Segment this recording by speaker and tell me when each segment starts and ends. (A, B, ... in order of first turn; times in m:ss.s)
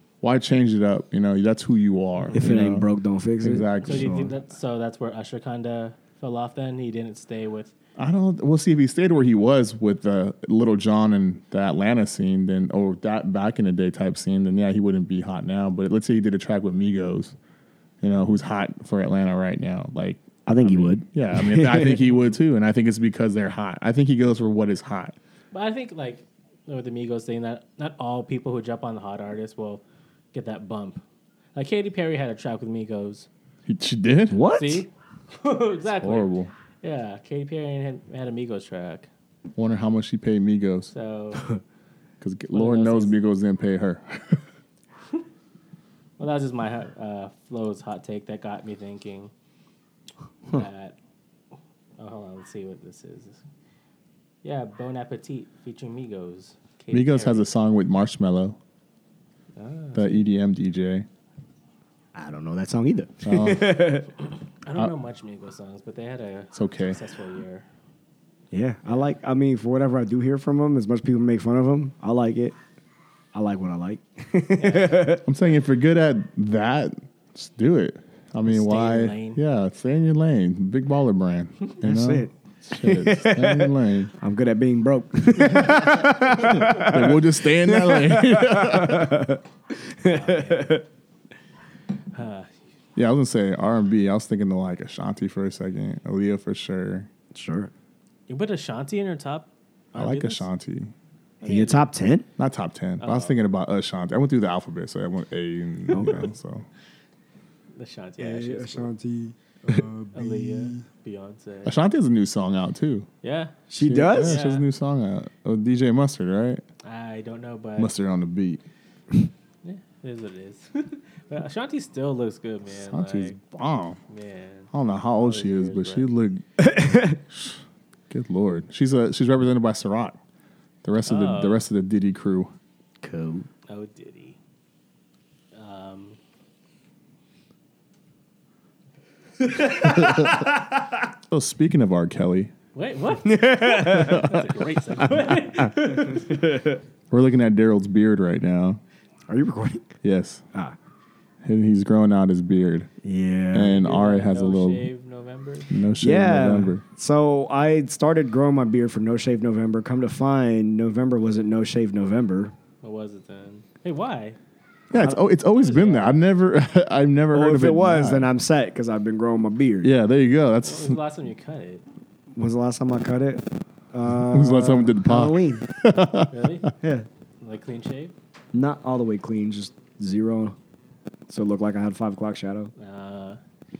0:00.2-0:02.9 A
0:02.3-0:03.9 B
0:03.4-0:04.4 A
0:03.8-0:07.7 C
0:08.0-0:17.4 A
0:18.0-0:25.1 A
0:20.4-0:22.0 B
0:25.5-0:29.8 C
0:30.3-0:31.0 C
0:31.5-0:33.3 C
0:33.7-0:34.4 A
0:34.3-0:34.8 B
0:34.4-0:36.3 C
0:36.0-0:36.5 A
0:36.8-0:39.1 C
0:39.6-0:40.9 A
0:40.9-0:41.5 C
0:42.2-0:44.4 A
0:42.5-0:43.2 C
0:46.2-0:49.3 C
0:50.5-0:50.9 C
0:52.0-0:53.4 C
0:54.4-0:57.5 C
0:56.9-0:58.6 A
0:59.6-1:00.2 C
0:59.9-1:01.0 A
1:02.1-1:04.1 B
1:03.2-1:03.8 A
1:04.6-1:07.6 C
1:06.5-1:07.0 A
1:08.5-1:12.5 B
1:13.3-1:15.2 B
1:14.6-1:15.2 C
1:15.2-1:24.1 A
1:18.4-1:19.4 C
1:21.8-1:30.8 B
1:25.5-1:29.2 A
1:30.1-1:30.7 C
1:32.1-1:32.5 C
1:33.0-1:37.1 A
1:37.3-1:37.7 B
1:38.3-1:40.4 C
1:39.9-1:40.9 A
1:41.4-1:41.9 C
1:41.4-1:42.2 B
1:42.4-1:46.6 A
1:43.0-1:43.3 C
1:45.9-1:46.3 B
1:47.8-1:48.9 C
1:48.2-1:50.8 B
1:49.7-1:51.8 C
1:51.6-1:53.1 A
1:53.2-1:53.6 C
1:53.7-1:54.4 B
1:53.8-1:56.6 A
1:54.1-1:54.6 C
1:56.8-1:57.9 C
1:57.8-1:58.6 A
1:59.6-2:03.4 C
2:02.7-2:04.0 A
2:04.1-2:06.1 C
2:04.7-2:10.2 A
2:06.6-2:07.2 B
2:10.8-2:12.5 A
2:11.1-2:11.6 C
2:13.0-2:13.5 B
2:13.7-2:14.4 C
2:15.5-2:16.2 C
2:19.6-2:20.4 B
2:20.0-2:20.4 A
2:21.3-2:22.5 A
2:22.7-2:26.3 C
2:23.2-2:24.3 B
2:23.9-2:25.1 A
2:26.0-2:26.8 B
2:27.1-2:28.8 A
2:29.3-2:29.9 B
2:30.0-2:30.4 A
2:31.4-2:32.9 A
2:33.0-2:33.8 B
2:33.5-2:34.8 A
2:33.7-2:35.8 C
2:35.7-2:36.8 A
2:36.0-2:42.5 B
2:42.8-2:44.4 C
2:44.9-2:48.3 A
2:44.9-2:45.2 B
2:45.5-2:46.2 C
2:47.3-2:49.9 B
2:49.8-2:51.0 A
2:50.6-2:51.8 C
2:52.4-2:55.6 B
2:54.3-2:56.6 A
2:56.3-2:56.7 C
2:56.8-2:57.0 B
2:57.4-2:58.1 C
2:58.5-3:00.6 B
3:01.3-3:02.7 B
3:02.8-3:03.4 C